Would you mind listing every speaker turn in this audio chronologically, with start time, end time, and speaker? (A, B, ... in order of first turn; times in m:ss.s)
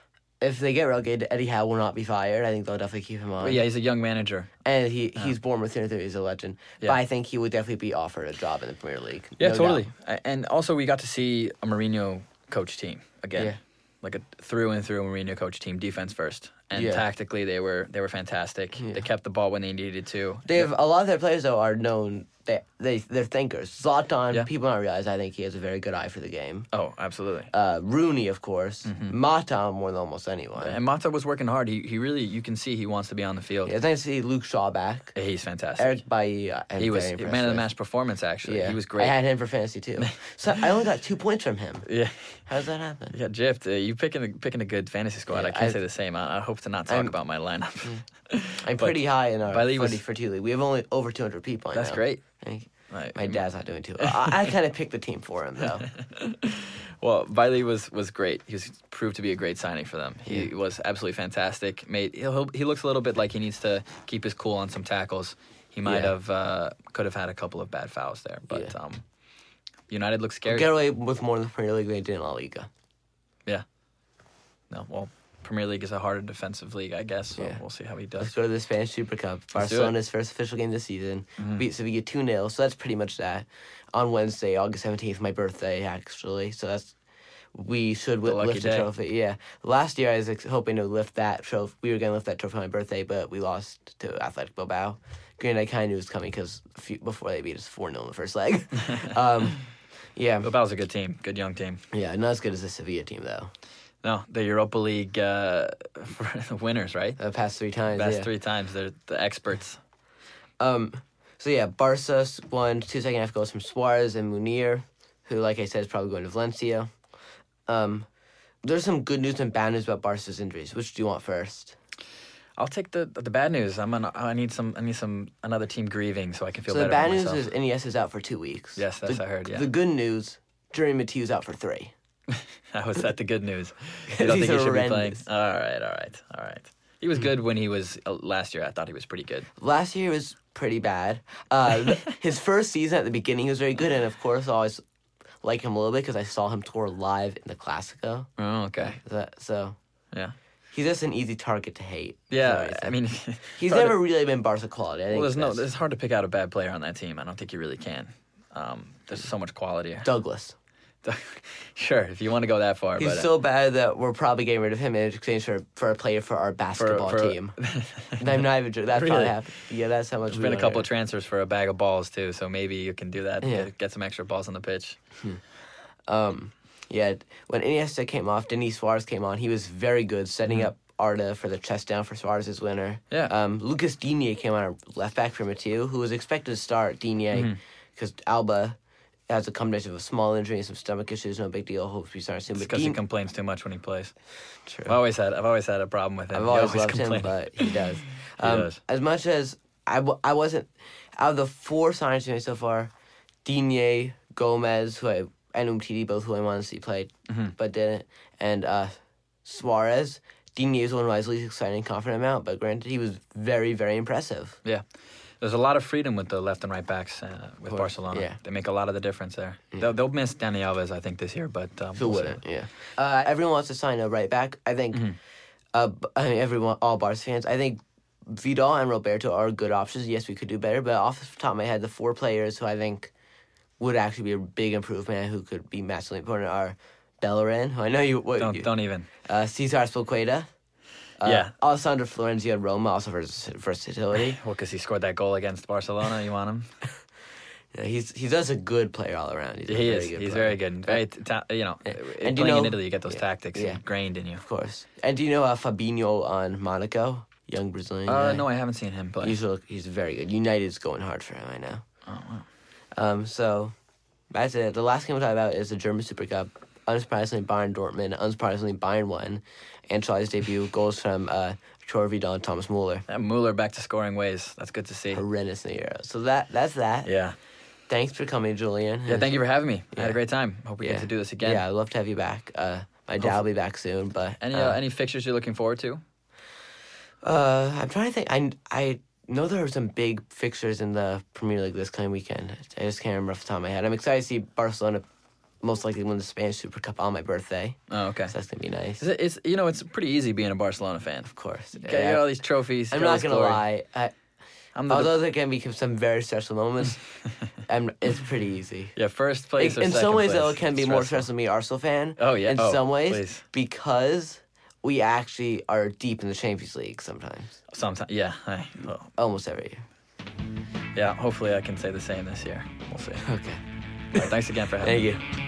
0:00.4-0:03.6 A
0:03.4-0:04.5 B
0:04.6-0:09.8 A
0:09.4-0:20.7 B
0:16.7-0:17.0 A
0:18.8-0:19.0 A
0:20.5-0:26.7 A
0:26.7-0:27.5 B
0:27.5-0:30.8 A
0:28.8-0:29.1 B
0:30.6-0:33.7 B
0:33.6-0:35.1 A
0:35.1-0:36.0 B
0:35.8-0:37.7 A
0:36.8-0:39.2 B
0:38.4-0:41.9 A
0:40.0-0:40.6 B
0:41.8-0:42.4 B
0:42.4-0:43.1 A
0:43.1-0:50.0 B
0:45.3-0:45.8 A
0:46.9-0:47.1 A
0:47.8-0:48.0 A
0:48.6-0:55.9 A
0:51.7-0:52.2 B
0:52.9-0:53.4 B
0:54.0-0:54.5 B
0:55.6-1:09.0 B
1:05.8-1:06.1 A
1:09.9-1:10.7 B
1:10.4-1:12.7 A
1:14.7-1:18.3 B
1:18.2-1:26.9 A
1:19.5-1:19.9 B
1:21.4-1:21.6 B
1:27.5-1:39.6 A
1:28.2-1:28.9 B
1:38.8-1:39.1 B
1:40.2-1:40.5 A
1:40.4-1:41.8 B
1:41.9-1:43.5 A
1:44.0-1:47.2 B
1:47.2-1:48.3 A
1:47.9-1:49.8 B
1:50.6-1:56.9 A
1:57.7-1:58.1 A
1:58.6-2:01.8 A
2:02.6-2:07.4 B
2:06.7-2:11.9 A
2:08.8-2:09.7 B
2:12.3-2:19.5 B
2:14.1-2:15.2 A
2:19.6-2:24.8 A
2:25.4-2:28.3 A
2:28.4-2:29.0 B
2:28.8-2:29.8 A
2:30.7-2:33.0 A
2:32.3-2:34.0 B
2:33.5-2:35.6 A
2:35.1-2:40.1 B
2:40.0-2:40.6 A
2:41.0-2:43.3 B
2:43.0-2:47.6 A
2:46.8-2:49.4 B
2:48.2-2:50.8 A
2:50.3-2:55.0 B
2:53.4-2:53.7 A
2:56.1-3:08.8 A
3:07.3-3:07.6 B
3:09.3-3:13.0 A
3:12.6-3:14.1 B
3:14.7-3:15.0 A
3:14.8-3:17.8 B
3:16.3-3:22.9 A
3:18.4-3:18.8 B
3:23.4-3:28.9 A
3:27.3-3:27.5 B
3:29.4-3:34.6 A
3:35.4-3:42.4 B
3:37.7-3:38.4 A
3:42.0-3:45.2 A
3:45.7-3:53.1 A
3:53.8-3:58.7 A
3:58.4-3:59.1 B
3:59.2-4:00.5 A
4:01.2-4:04.4 A
4:01.2-4:01.5 B
4:04.1-4:06.7 B
4:07.7-4:11.0 A
4:09.7-4:14.4 B
4:11.8-4:13.8 A
4:14.4-4:18.4 A
4:18.0-4:19.4 B
4:19.2-4:21.8 A
4:22.0-4:22.4 B
4:22.9-4:23.7 A
4:24.3-4:33.0 A
4:33.1-4:35.2 B
4:35.1-4:37.1 A
4:37.0-4:37.4 B
4:37.9-4:39.3 A
4:39.1-4:41.6 B
4:40.8-4:44.8 A
4:44.4-4:46.0 B
4:47.2-4:55.0 A
4:55.6-4:59.0 A
4:57.9-4:58.3 B
4:59.0-5:03.6 B
5:01.2-5:02.2 A
5:02.9-5:04.1 A
5:04.7-5:05.2 B
5:04.9-5:07.1 A
5:07.6-5:08.9 A
5:09.0-5:11.3 B
5:09.6-5:17.6 A
5:12.2-5:13.4 B
5:17.7-5:19.1 B
5:19.1-5:19.8 A
5:20.9-5:23.2 B
5:23.2-5:23.6 A
5:24.1-5:25.1 B
5:24.1-5:25.2 A